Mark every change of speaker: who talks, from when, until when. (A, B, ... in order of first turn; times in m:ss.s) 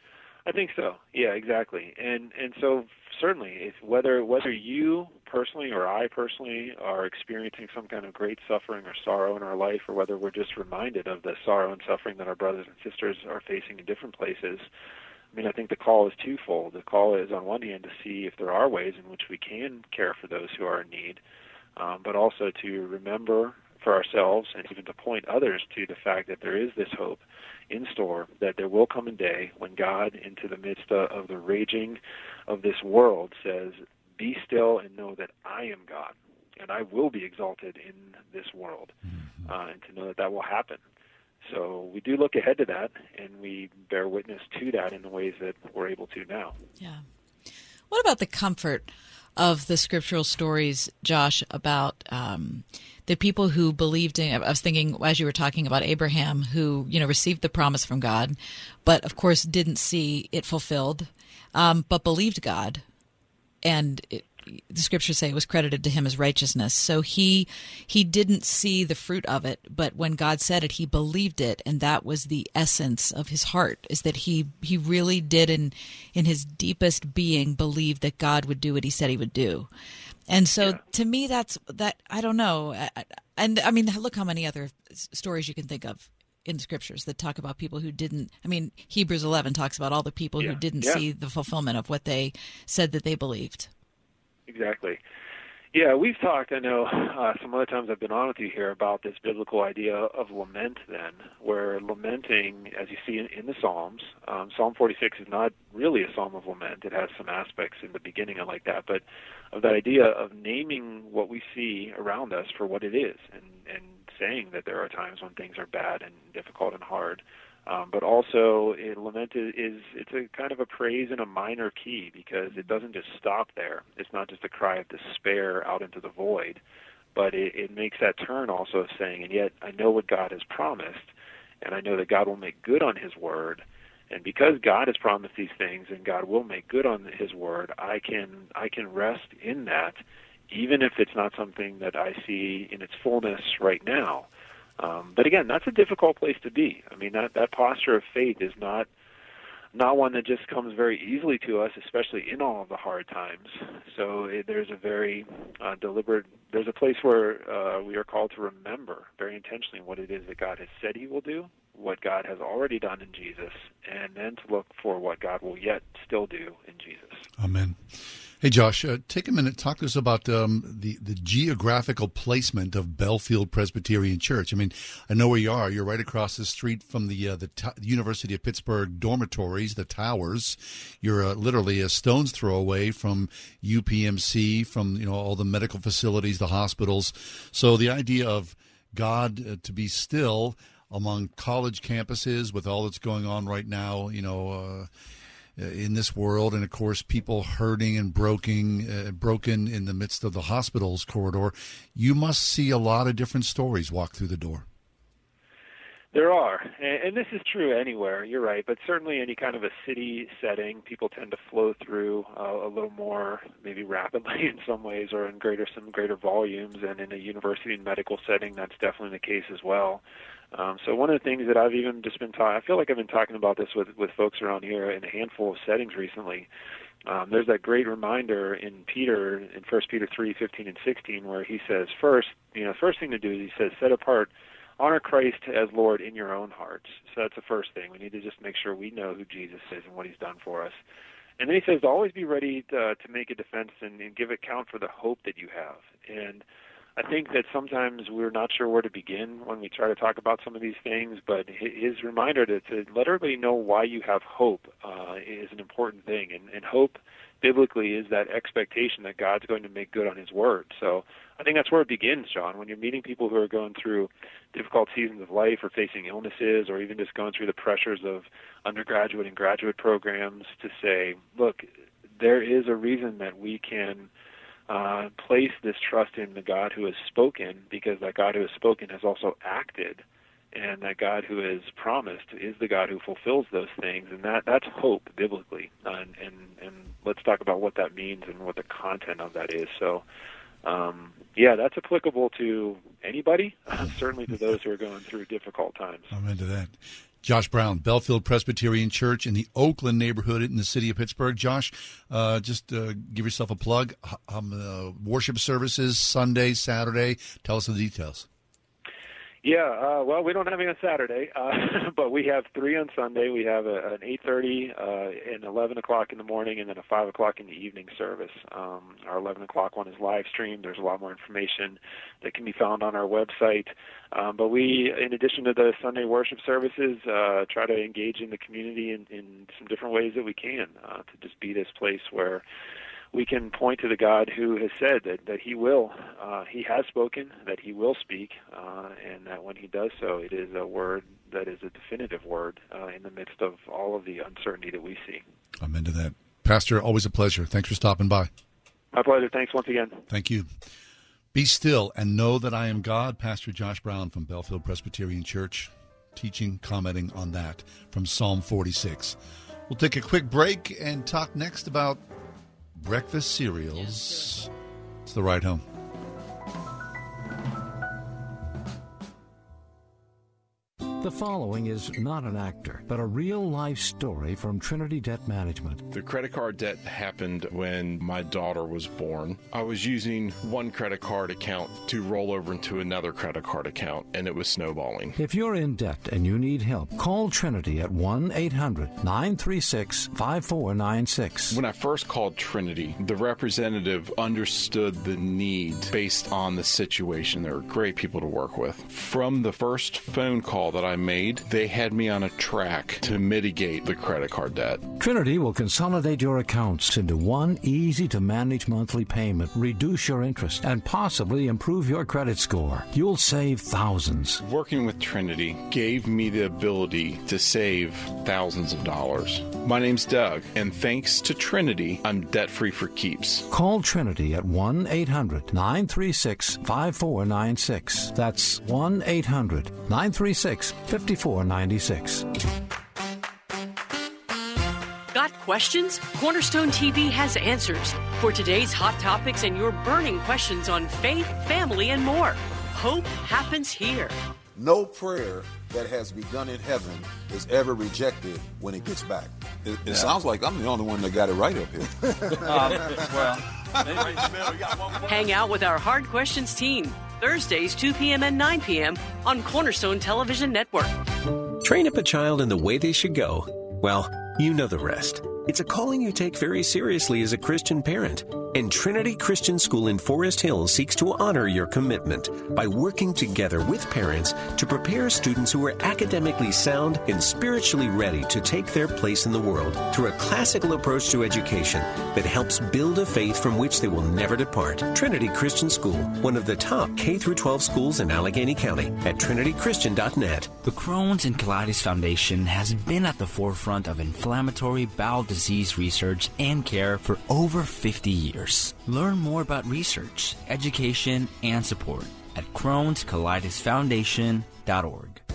0:00.4-0:14.7 A
0:15.3-0:21.2 A
0:21.8-0:40.8 A
0:39.1-0:39.5 B
0:41.4-0:46.6 A
0:47.9-1:02.8 C
1:03.6-1:19.7 C
1:20.3-1:33.7 C
1:30.4-1:31.0 A
1:34.5-1:35.0 A
1:35.7-2:06.6 A
2:07.1-2:11.1 A
2:11.6-2:20.0 A
2:20.5-2:24.3 A
2:24.8-2:28.9 A
2:29.7-2:47.2 A
2:47.4-2:47.8 B
2:48.4-3:14.9 B
3:15.6-3:24.6 B
3:26.1-3:46.5 A
3:47.0-4:00.8 A
4:01.4-4:06.4 A
4:07.0-4:31.6 A
4:32.2-4:34.1 A
4:34.7-4:50.0 A
4:50.6-4:56.1 A
4:56.1-5:08.3 B
5:09.4-5:32.4 A
5:33.1-5:45.2 A
5:45.6-5:48.3 B
5:48.9-5:50.0 A
5:50.1-5:50.5 B
5:51.3-5:59.2 B
5:59.7-6:02.0 B
6:02.8-6:04.5 B
6:05.0-6:05.6 B
6:11.0-6:15.8 D
6:15.9-6:25.2 E
6:25.2-6:31.6 D
6:31.5-6:44.9 E
6:45.0-6:54.4 D
6:54.4-7:03.4 E
7:03.5-7:12.2 D
7:15.1-7:24.1 F
7:24.6-7:33.2 G
7:32.5-7:35.3 E
7:33.8-7:34.9 G
7:35.0-7:41.0 F
7:41.6-8:10.5 H
8:10.6-8:25.2 I